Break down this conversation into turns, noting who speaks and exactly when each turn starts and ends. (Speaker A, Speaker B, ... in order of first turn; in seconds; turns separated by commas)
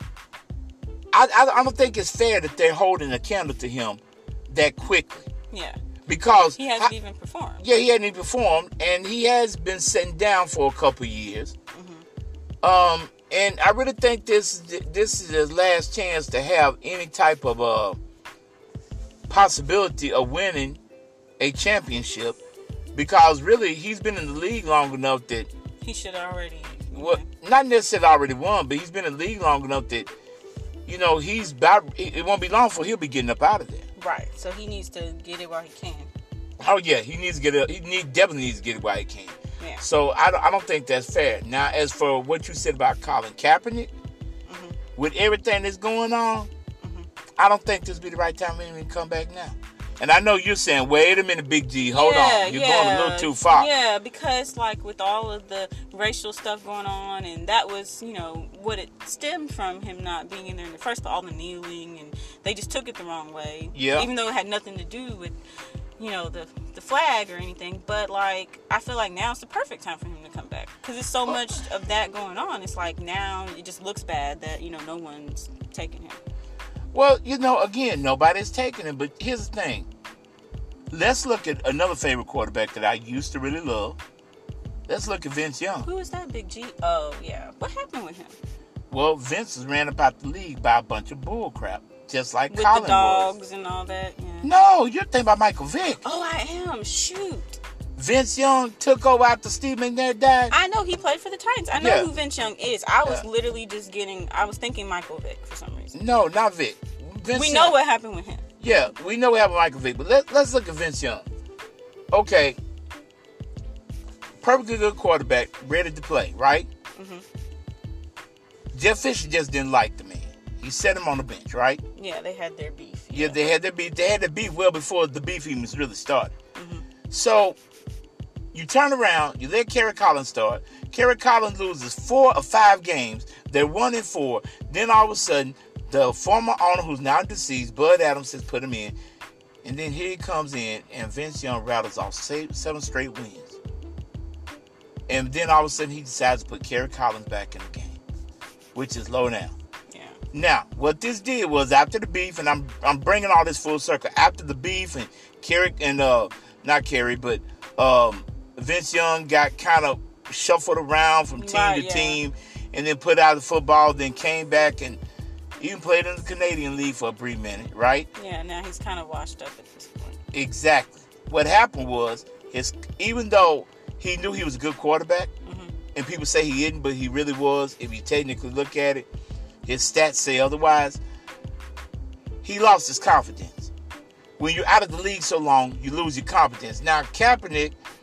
Speaker A: 1.1-5.3, Speaker B: 5.5-5.8, Speaker A: 6.0-6.9, Speaker B: 6.3-7.6, Speaker A: 7.6-11.5, Speaker B: 11.7-12.0, Speaker A: 12.6-18.0, Speaker A: 19.3-20.8, Speaker A: 21.4-22.4, Speaker A: 22.9-25.5, Speaker B: 25.8-27.2, Speaker A: 26.9-30.1, Speaker A: 30.9-33.8, Speaker B: 34.0-36.1, Speaker A: 36.6-43.9, Speaker B: 44.5-44.8, Speaker A: 45.0-46.5, Speaker B: 46.8-47.1, Speaker A: 47.4-53.7, Speaker B: 51.9-65.4, Speaker A: 63.7-64.1, Speaker B: 66.0-76.2, Speaker A: 76.9-79.9, Speaker A: 80.9-84.0, Speaker A: 84.9-85.9, Speaker B: 85.8-88.3, Speaker A: 88.9-93.3, Speaker B: 92.5-94.5, Speaker A: 94.4-96.0, Speaker B: 96.0-97.6, Speaker A: 98.0-100.5, Speaker B: 100.5-106.0, Speaker A: 101.8-102.1, Speaker A: 105.9-107.8, Speaker B: 107.3-108.4, Speaker A: 108.6-111.2, Speaker A: 112.1-112.6, Speaker A: 114.4-116.7, Speaker B: 116.9-117.2, Speaker A: 118.7-121.8, Speaker B: 121.9-123.5, Speaker A: 123.1-126.3, Speaker B: 126.5-126.8, Speaker A: 127.1-127.6, Speaker A: 128.5-138.9, Speaker A: 139.6-143.6, Speaker A: 145.1-148.0, Speaker A: 148.7-149.5, Speaker B: 149.9-150.2, Speaker A: 150.3-165.0, Speaker B: 161.3-162.2, Speaker A: 165.6-168.1, Speaker B: 168.1-170.2, Speaker A: 170.3-175.3, Speaker B: 175.4-175.7, Speaker A: 175.9-179.1, Speaker A: 179.7-181.0, Speaker A: 182.4-183.7, Speaker A: 184.4-187.8